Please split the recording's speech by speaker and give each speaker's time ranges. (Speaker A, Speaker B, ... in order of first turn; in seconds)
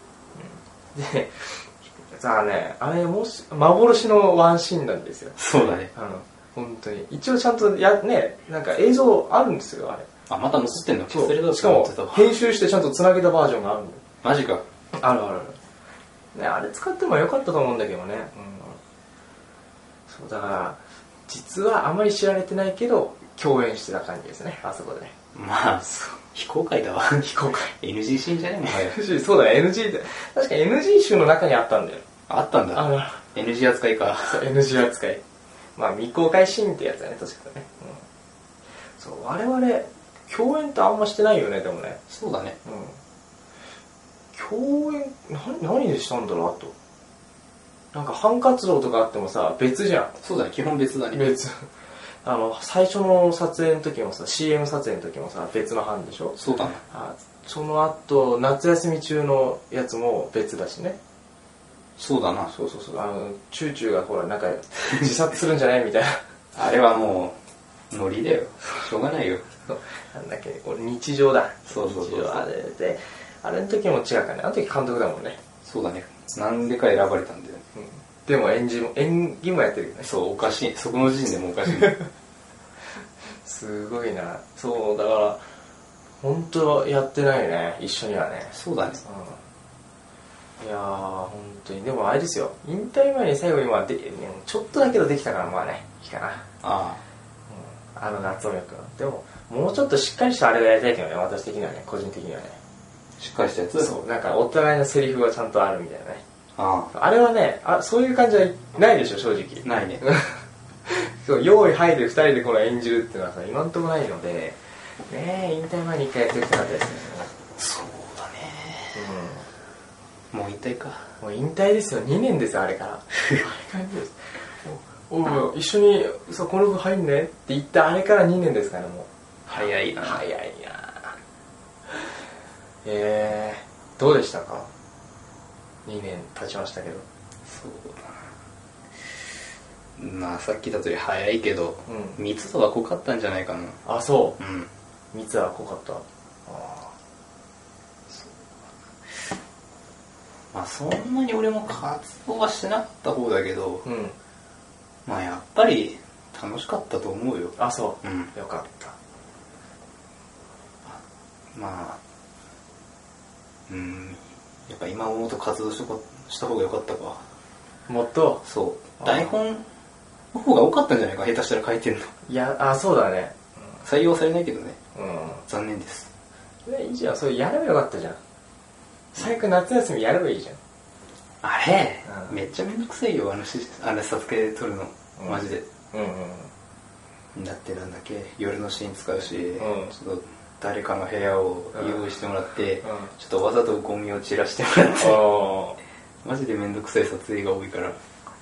Speaker A: 0.3-5.3, 5.9-10.1, 10.8-14.0, 14.9-15.6, 16.3-18.8, 20.1-25.1, 25.8-26.2, 27.2-27.7, 28.7-32.0, 32.7-33.2, 34.2-35.2, 35.8-38.0, 39.0-42.0, 42.6-43.0, 44.3-46.7, 47.9-50.1, 51.1-51.6, 52.2-61.0, 62.5-66.2, 69.7-75.4, 77.7-80.1, 83.4-85.4, 86.2-89.4, 90.6-96.5, 97.5-102.6, 103.8-106.2, 106.9-117.3, 118.9-119.5, 121.2-131.2, 132.8-134.7, 135.8-137.0, 141.9-142.2, 143.8-144.4, 145.1-146.9, 153.8-154.2, 157.6-158.9, 167.9-168.4, 169.0-169.3, 172.3-173.3, 174.9-175.4, 176.7-178.2, 179.1-180.6, 182.1-182.3, 185.2-186.5, 189.6-189.9, 191.7-192.0, 192.8-193.1, 195.0-195.8
Speaker B: 5.4-5.9, 10.3-12.3, 14.2-14.6, 25.3-29.0, 32.3-34.4, 42.1-42.6, 50.2-51.2, 56.4-56.8, 62.0-62.5, 66.5-67.4, 67.9-69.4, 71.7-72.4, 75.6-77.6, 80.0-82.0, 88.5-89.0, 96.6-97.0, 103.2-104.0, 106.6-106.9, 109.6-110.0, 117.6-119.0, 120.3-121.1, 129.5-130.2, 137.4-138.3, 140.0-143.8, 144.4-144.7, 150.5-153.8, 155.1-158.3, 161.5-162.0, 163.7-167.2, 168.4-169.7, 170.3-172.1, 173.8-174.8, 175.5-176.1, 181.4-185.7, 187.3-195.3, 196.2-198.0